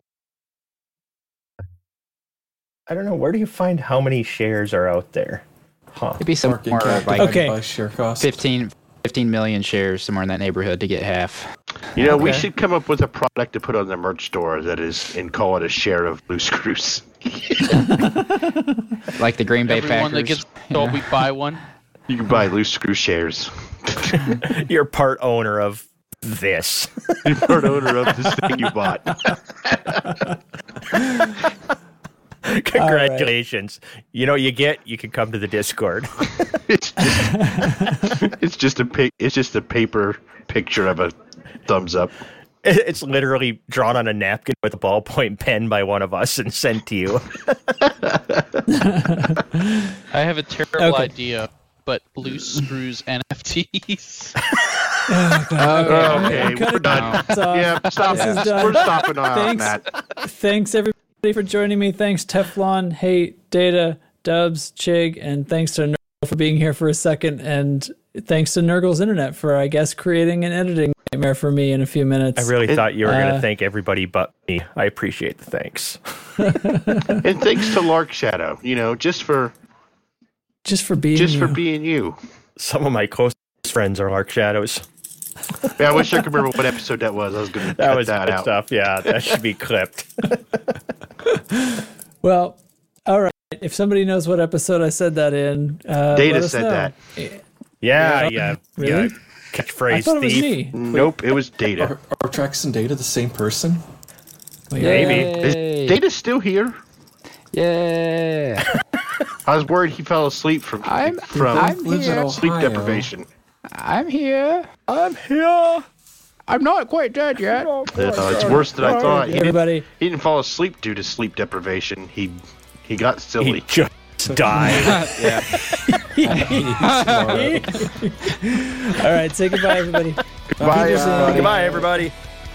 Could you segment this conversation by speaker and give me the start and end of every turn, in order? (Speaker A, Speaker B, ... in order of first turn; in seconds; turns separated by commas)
Speaker A: 2.9-6.2, Speaker B: 6.2-7.5, Speaker C: 6.4-8.4, Speaker D: 7.2-7.6, Speaker B: 8.2-11.5, Speaker E: 11.9-17.9, Speaker D: 18.0-18.8, Speaker B: 19.2-21.1, Speaker F: 19.7-21.6, Speaker E: 22.1-24.2, Speaker A: 24.2-27.9, Speaker E: 27.2-30.0, Speaker D: 30.9-31.4, Speaker A: 32.5-36.6, Speaker D: 32.8-33.3, Speaker E: 36.7-37.4, Speaker D: 37.3-38.1, Speaker E: 38.1-42.1, Speaker A: 42.6-47.9, Speaker E: 48.1-48.5, Speaker D: 48.7-50.0, Speaker F: 50.1-54.4, Speaker D: 50.8-51.1, Speaker D: 55.1-73.5, Speaker B: 55.6-56.5, Speaker E: 55.7-59.9, Speaker F: 56.9-57.2, Speaker B: 58.1-58.4, Speaker A: 72.4-77.1, Speaker D: 76.4-77.2, Speaker E: 77.2-79.5, Speaker D: 80.7-81.6, Speaker E: 81.2-82.2, Speaker A: 82.6-84.8, Speaker E: 85.8-88.5, Speaker A: 87.7-90.6, Speaker D: 91.3-97.4, Speaker E: 96.1-96.9, Speaker A: 97.8-100.7, Speaker D: 97.9-99.1, Speaker D: 99.9-100.8, Speaker E: 100.7-101.9, Speaker C: 101.8-103.8, Speaker D: 104.7-105.3, Speaker B: 104.8-106.0, Speaker A: 104.8-105.3, Speaker E: 104.9-106.8, Speaker B: 107.5-108.7, Speaker E: 109.5-111.8, Speaker B: 110.8-112.4, Speaker C: 111.5-113.1, Speaker E: 112.4-113.3, Speaker B: 113.7-114.7, Speaker A: 114.9-115.9, Speaker B: 116.5-117.8, Speaker A: 117.5-119.2, Speaker E: 117.9-123.7, Speaker D: 118.8-119.9, Speaker A: 123.4-125.6, Speaker B: 124.7-125.5, Speaker D: 125.5-131.8, Speaker B: 126.3-127.6, Speaker C: 126.4-127.6, Speaker C: 130.6-131.2, Speaker E: 130.6-131.8, Speaker A: 131.1-132.1